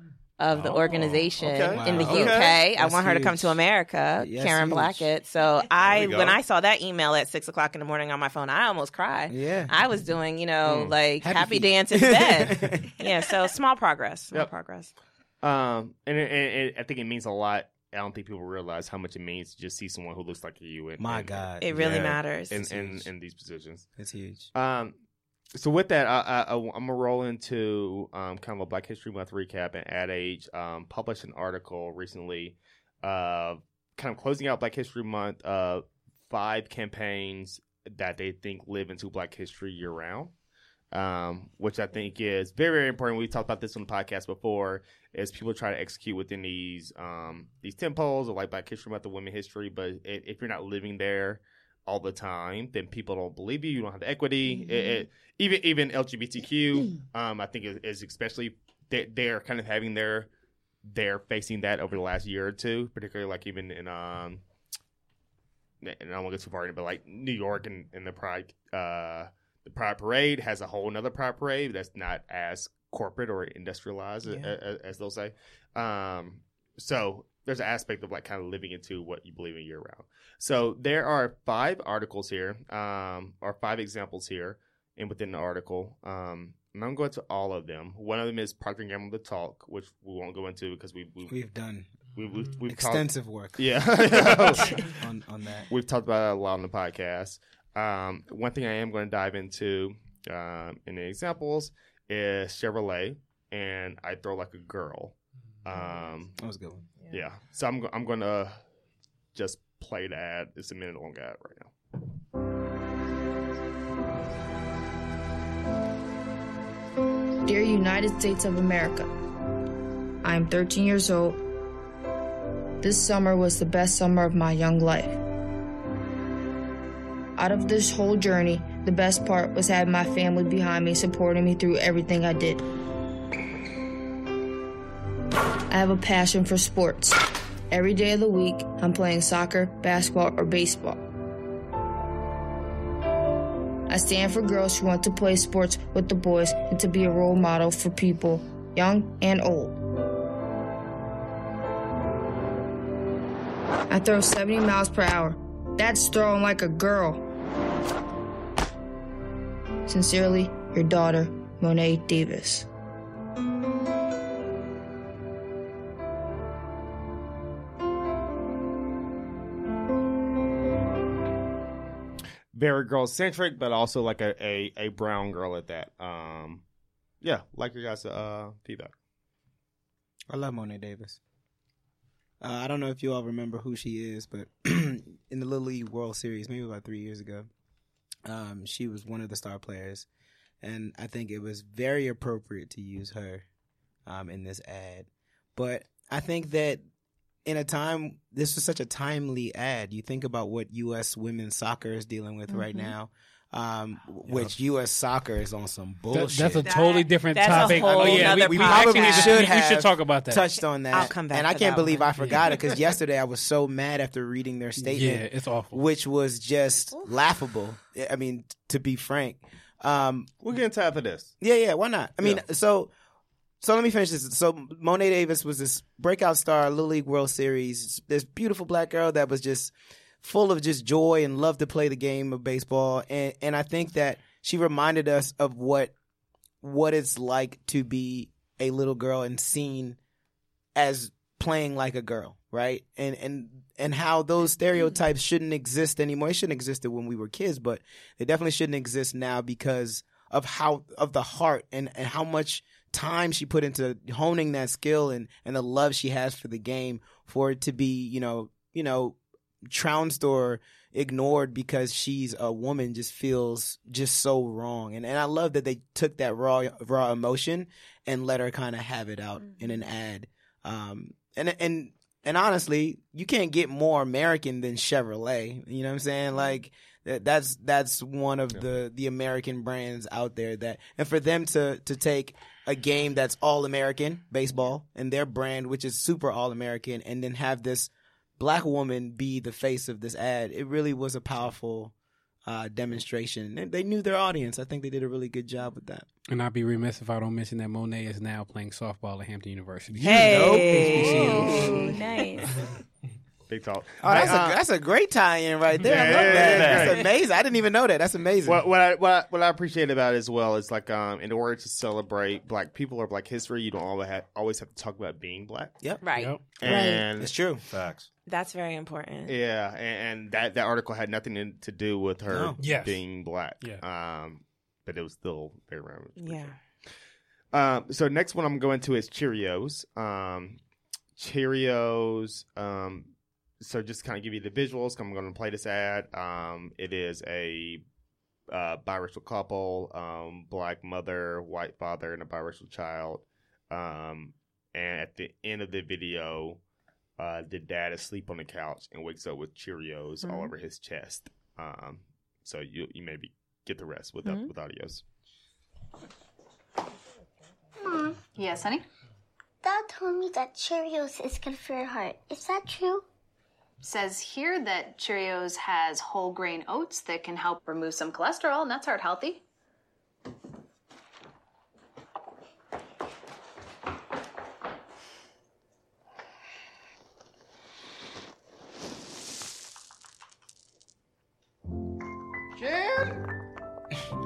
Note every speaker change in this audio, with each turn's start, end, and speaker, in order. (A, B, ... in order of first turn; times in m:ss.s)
0:00.4-0:14.9 A
0:00.5-0:02.3 B
0:01.4-0:02.5 C
0:01.7-0:03.6 D
0:04.2-0:05.1 D
0:05.8-0:06.4 B
0:09.3-0:09.7 D
0:10.7-0:10.9 C
0:11.2-0:12.9 D
0:15.4-0:23.9 C
0:21.0-0:23.1 D
0:21.6-0:22.6 A
0:24.0-0:24.5 D
0:24.5-0:25.0 C
0:25.5-0:40.3 C
0:40.9-1:00.3 C
1:00.8-1:04.4 C
1:05.8-1:31.3 C
1:31.3-1:31.9 D
1:32.1-1:35.0 C
1:32.7-1:35.7 D
1:35.7-1:46.4 C
1:46.4-1:46.9 D
1:47.1-1:48.6 C
1:49.4-1:51.7 C
1:57.5-1:59.1 E
2:00.2-2:01.4 E
2:02.8-2:05.2 E
2:07.4-2:12.6 E
2:15.7-2:17.2 E
2:17.7-2:21.0 E
2:23.9-2:29.8 E
2:33.9-2:37.2 E
2:39.9-2:42.7 E
2:52.5-2:56.6 C
2:57.2-2:58.9 C
3:00.3-3:01.2 D
3:02.4-3:07.5 D
3:08.2-3:10.1 D
3:10.6-3:13.4 D
3:14.1-3:16.8 D
3:17.4-3:26.7 D
3:22.6-3:22.8 F
3:26.1-3:30.5 G
3:26.6-3:29.5 A
3:27.5-3:40.3 D
3:30.9-3:32.1 A
3:32.2-3:32.5 G
3:34.8-3:35.8 G
3:40.4-3:41.3 C
3:41.4-3:42.9 D
3:43.6-3:55.9 D
3:56.6-4:00.0 D
4:00.8-4:51.9 D
4:52.5-4:56.1 D
4:56.3-5:02.0 G
5:00.0-5:01.7 D
5:00.0-5:02.0 A
5:01.0-5:02.5 F
5:03.5-5:04.6 C
5:04.0-5:08.6 D
5:05.8-5:07.1 C
5:06.1-5:07.0 B
5:08.4-5:15.8 C
5:16.0-5:16.4 A
5:16.1-5:16.5 G
5:16.6-5:17.3 C
5:16.6-5:17.0 F
5:16.6-5:17.6 D
5:17.7-5:18.1 B
5:18.3-5:19.4 A
5:19.3-5:26.6 C
5:22.3-5:22.6 D
5:22.6-5:23.0 G
5:26.2-5:26.6 A
5:27.5-5:30.6 C
5:31.2-5:37.8 C
5:38.5-5:46.6 C
5:47.2-5:55.0 C
5:57.8-5:58.2 H
5:58.3-5:58.8 I
5:59.6-6:03.0 H
6:03.8-6:09.4 I
6:22.6-6:23.2 C